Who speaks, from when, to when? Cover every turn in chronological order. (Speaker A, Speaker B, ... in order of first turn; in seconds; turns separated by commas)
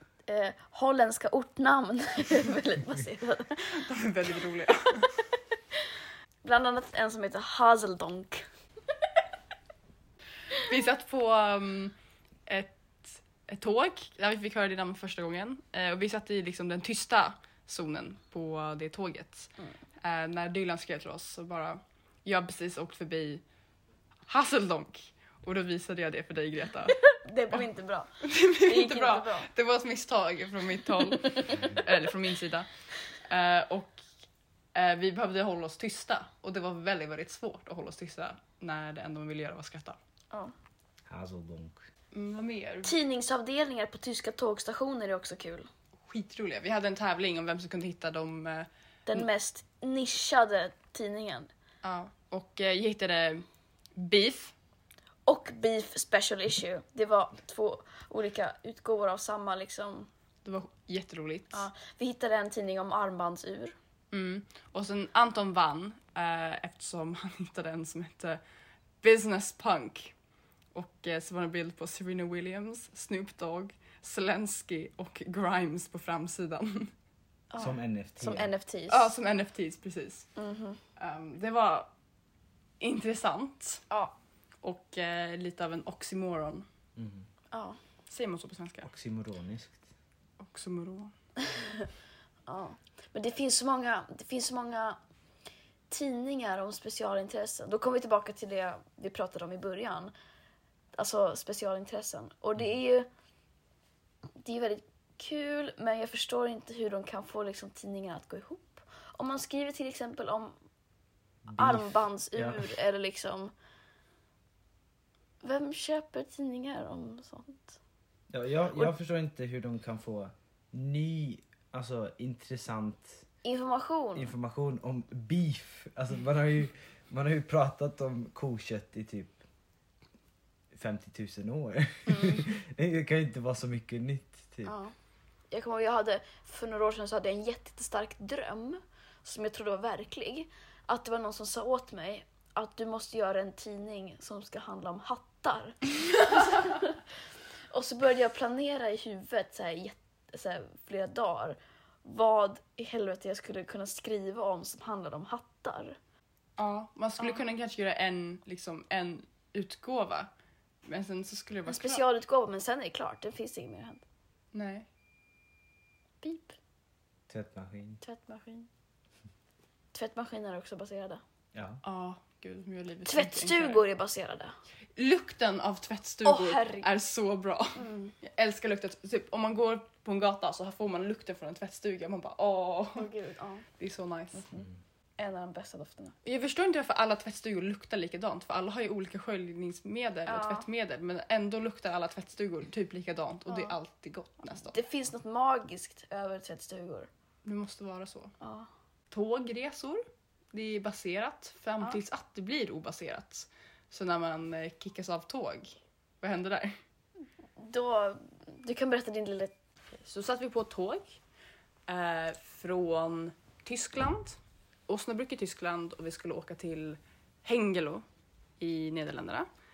Speaker A: 0.3-3.7, Speaker B: 3.6-5.1, Speaker A: 6.4-8.4, Speaker B: 10.6-11.9, Speaker B: 12.4-23.4, Speaker B: 24.3-27.6, Speaker A: 27.0-29.5, Speaker B: 28.2-32.7, Speaker A: 31.2-31.7, Speaker B: 33.2-34.0, Speaker B: 34.7-40.0, Speaker C: 41.1-41.8, Speaker B: 42.1-42.9, Speaker A: 42.8-45.7, Speaker B: 46.1-49.2, Speaker A: 49.1-51.5, Speaker B: 51.8-54.5, Speaker A: 55.2-60.1, Speaker B: 60.4-61.6, Speaker A: 61.5-63.7, Speaker B: 64.1-68.4, Speaker B: 69.0-70.1, Speaker B: 70.7-76.9, Speaker A: 77.5-79.1, Speaker C: 77.6-78.5, Speaker B: 78.9-80.3, Speaker A: 80.4-80.8, Speaker B: 81.0-81.9, Speaker B: 82.8-83.8, Speaker B: 84.6-86.7, Speaker C: 87.0-87.3, Speaker A: 87.5-87.8, Speaker B: 88.1-88.9, Speaker C: 88.8-89.8, Speaker B: 90.4-91.1, Speaker A: 91.4-91.9, Speaker A: 92.5-95.0, Speaker A: 95.9-100.1, Speaker A: 100.9-103.1, Speaker A: 104.4-110.5, Speaker C: 111.5-112.7, Speaker A: 111.6-113.5, Speaker A: 115.4-117.8, Speaker C: 118.3-123.2, Speaker A: 123.4-124.3, Speaker C: 124.1-129.4, Speaker C: 130.7-134.7, Speaker A: 132.1-132.4, Speaker A: 134.6-134.9, Speaker A: 135.5-147.0, Speaker A: 147.7-156.0, Speaker B: 156.6-160.3, Speaker B: 160.8-162.0, Speaker A: 161.7-164.0, Speaker B: 164.5-164.9, Speaker A: 166.2-166.5, Speaker C: 167.3-168.0, Speaker A: 168.0-168.7, Speaker A: 169.9-171.2, Speaker C: 171.5-171.8, Speaker B: 171.8-173.8, Speaker A: 173.0-174.5, Speaker B: 174.9-183.1, Speaker A: 176.2-176.9, Speaker A: 177.8-178.1, Speaker A: 182.9-183.7, Speaker B: 183.8-184.5, Speaker A: 185.2-186.1, Speaker B: 186.2-194.8, Speaker A: 190.2-190.7, Speaker A: 193.5-193.7, Speaker A: 194.7-197.1, Speaker B: 197.4-198.3, Speaker A: 198.4-198.7, Speaker B: 199.1-206.8, Speaker A: 207.6-209.5, Speaker B: 210.0-211.2, Speaker B: 211.9-218.0, Speaker B: 218.6-219.5